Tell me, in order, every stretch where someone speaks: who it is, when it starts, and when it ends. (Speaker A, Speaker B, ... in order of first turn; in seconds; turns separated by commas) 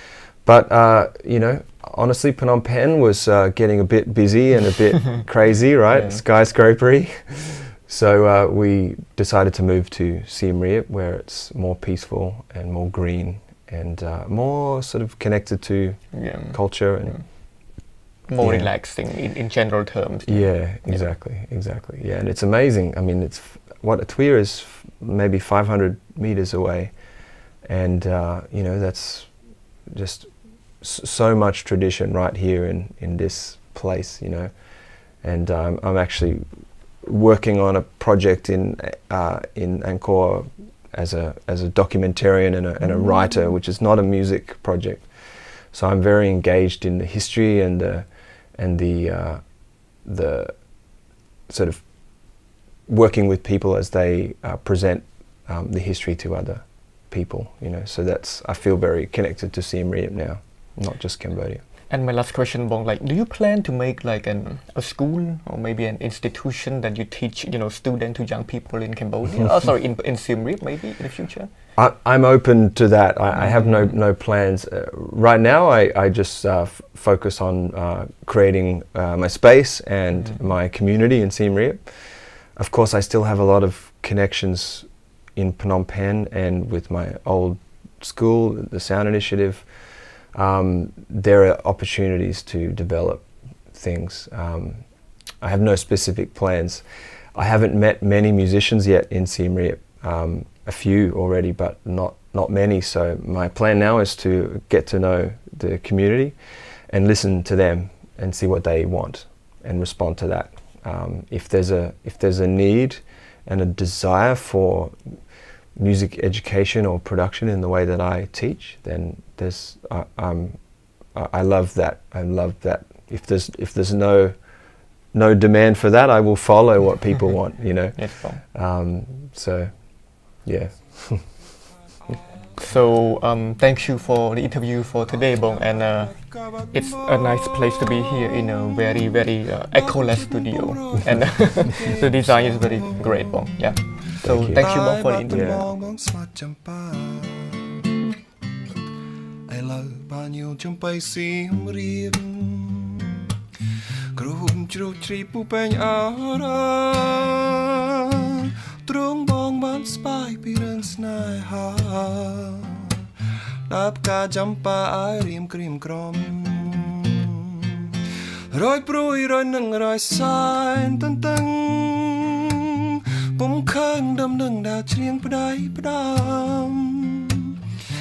Speaker A: 0.5-17.2, Speaker B: 5.9-6.2, Speaker B: 16.1-16.6, Speaker B: 18.3-21.1, Speaker A: 18.4-18.7, Speaker A: 20.3-26.9, Speaker A: 27.6-29.3, Speaker A: 29.9-34.5, Speaker A: 35.2-36.5, Speaker A: 37.0-45.1, Speaker A: 45.7-48.1, Speaker A: 48.6-49.4, Speaker A: 50.0-50.5, Speaker A: 51.5-51.8, Speaker A: 52.9-61.6, Speaker B: 61.9-71.5, Speaker A: 71.8-81.9, Speaker A: 82.6-89.7, Speaker A: 90.3-94.8, Speaker A: 95.4-96.8, Speaker A: 97.3-106.3, Speaker A: 106.9-115.0, Speaker A: 115.8-120.6, Speaker A: 121.1-124.3, Speaker A: 125.1-129.7, Speaker B: 128.0-128.4, Speaker A: 130.4-131.3, Speaker B: 132.6-136.2, Speaker C: 135.3-143.6, Speaker B: 136.7-145.5, Speaker A: 144.2-144.6, Speaker C: 144.5-147.8, Speaker A: 145.3-145.7, Speaker C: 149.5-153.3, Speaker C: 154.2-163.0, Speaker C: 163.7-167.9, Speaker C: 168.5-177.6